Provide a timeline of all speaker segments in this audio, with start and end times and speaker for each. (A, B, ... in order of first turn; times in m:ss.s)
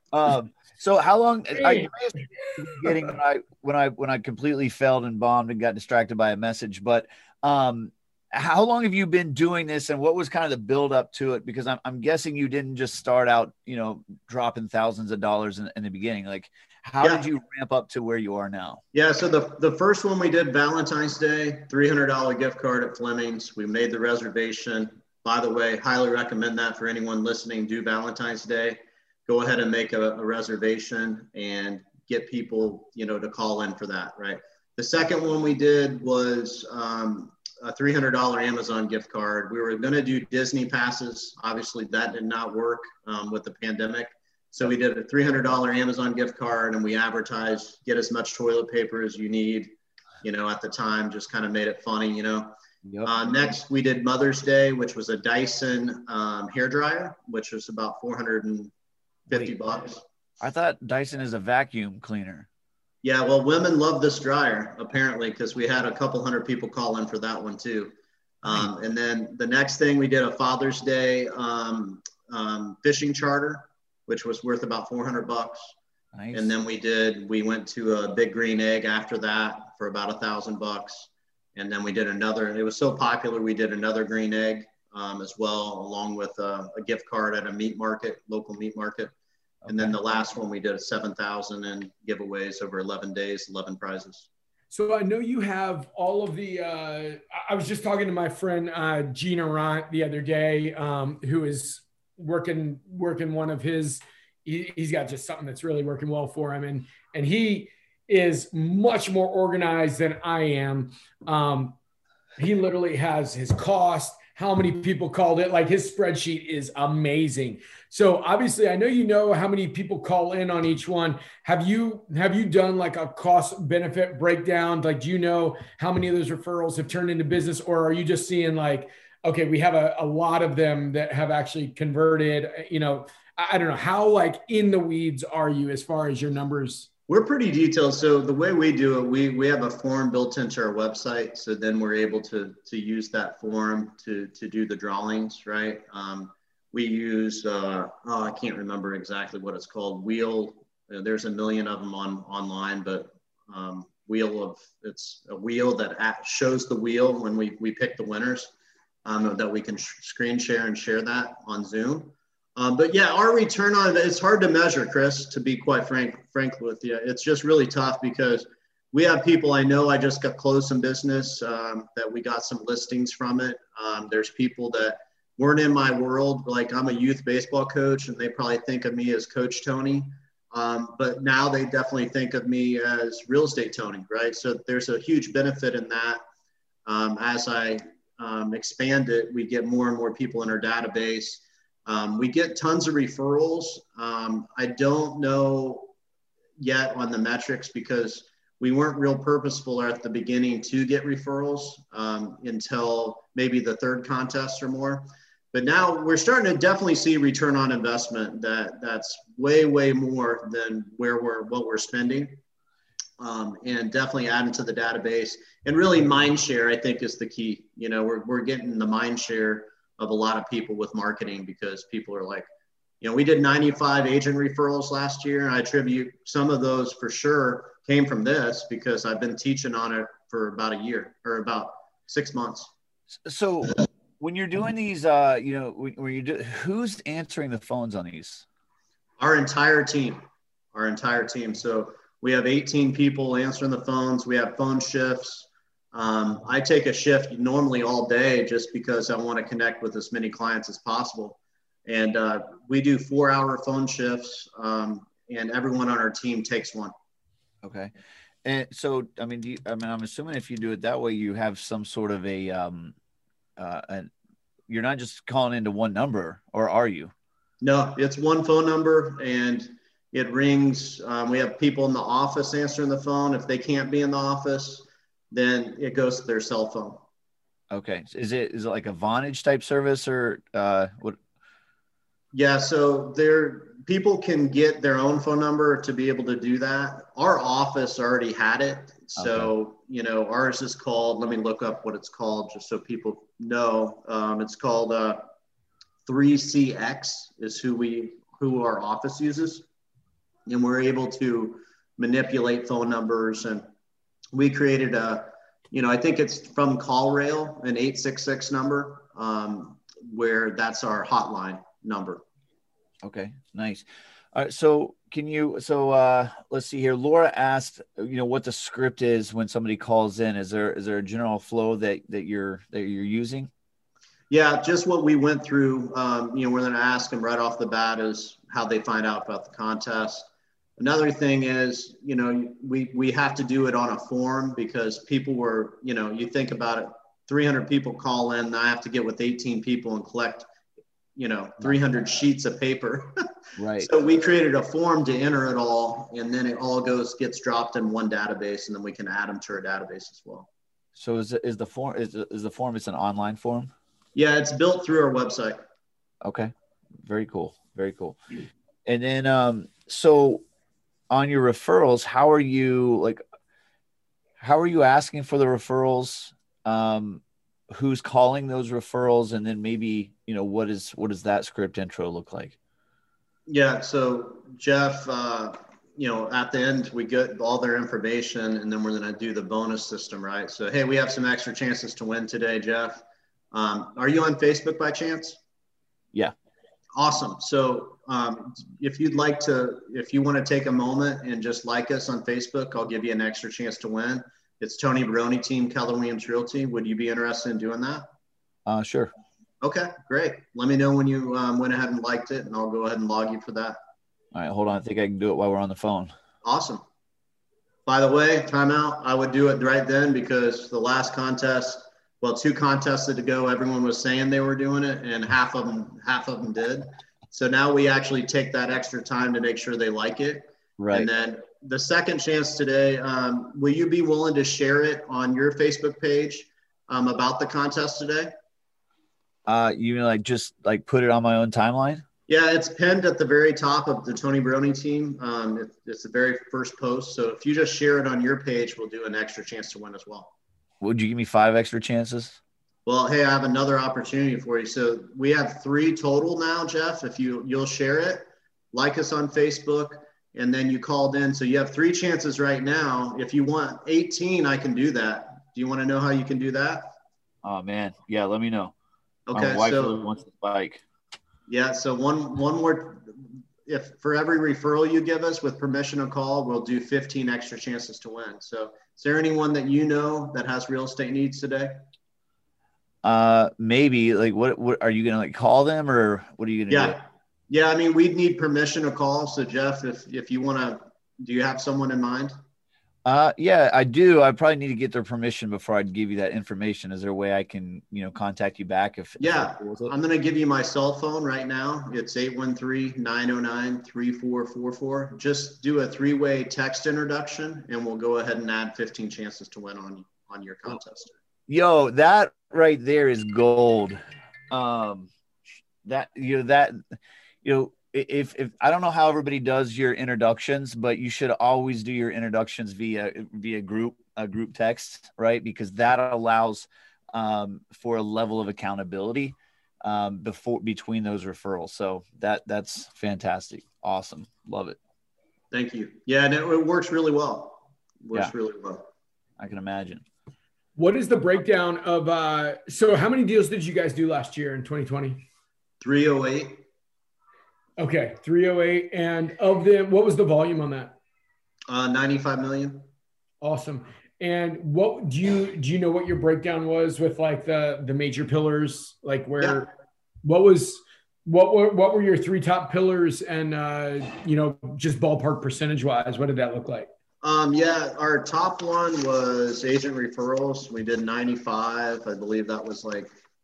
0:00.1-0:18.8 A
0:01.6-0:01.9 B
0:18.9-0:49.7 C
0:50.2-0:58.7 C
0:52.8-0:53.1 A
0:59.3-1:00.0 C
1:00.4-1:02.5 A
1:03.0-1:15.7 C
1:16.1-1:16.5 A
1:16.3-1:29.1 C
1:29.6-1:29.9 A
1:29.7-1:34.3 C
1:34.7-1:51.8 B
1:52.4-2:16.9 B
2:17.1-2:38.5 C
2:39.0-3:06.2 C
3:06.9-3:15.9 C
3:16.6-3:32.4 C
3:33.2-3:42.4 C
3:43.0-3:52.7 C
3:53.2-3:58.4 A
3:59.2-4:00.2 C
4:00.7-4:16.9 C
4:17.6-4:17.9 A
4:18.4-4:22.9 A
4:23.6-4:24.1 A
4:24.7-4:27.1 A
4:27.6-4:37.0 C
4:37.7-4:41.2 A
4:42.3-4:55.2 C
4:49.2-4:49.5 A
4:56.0-4:59.6 C
5:00.5-5:03.6 C
5:04.3-5:12.2 C
5:13.0-5:23.5 A
5:24.3-5:40.5 C
5:41.2-5:43.1 C
5:43.6-5:43.9 A
5:43.8-5:50.5 C
5:50.9-5:53.7 A
5:54.1-5:55.6 C
5:56.2-5:56.5 A
5:57.0-5:58.2 A
5:58.8-6:00.4 A
6:01.1-6:03.2 A
6:04.4-6:12.6 A
6:13.5-6:25.4 C
6:27.0-6:38.1 C
6:38.6-6:39.1 A
6:39.6-6:43.8 C
6:44.3-6:46.1 A
6:46.4-6:46.8 C
6:47.8-7:08.3 C
7:00.8-7:01.1 A
7:09.5-7:12.0 A
7:12.3-7:20.3 C
7:20.8-7:22.4 A
7:22.8-7:36.9 C
7:37.4-7:38.7 A
7:39.3-7:40.1 C
7:39.3-7:40.8 A
7:41.5-7:51.8 C
7:53.0-7:57.0 A
7:56.7-8:02.3 C
8:03.0-8:09.9 A
8:09.2-8:21.1 C
8:21.5-8:24.0 A
8:24.5-8:25.1 A
8:25.8-8:26.8 A
8:27.4-8:44.8 A
8:45.5-8:48.8 C
8:49.4-8:50.0 A
8:50.8-8:55.2 B
8:55.8-8:56.6 C
8:57.8-9:00.9 B
9:01.7-9:02.8 C
9:03.4-9:09.7 B
9:10.2-9:16.9 B
9:17.2-9:23.1 C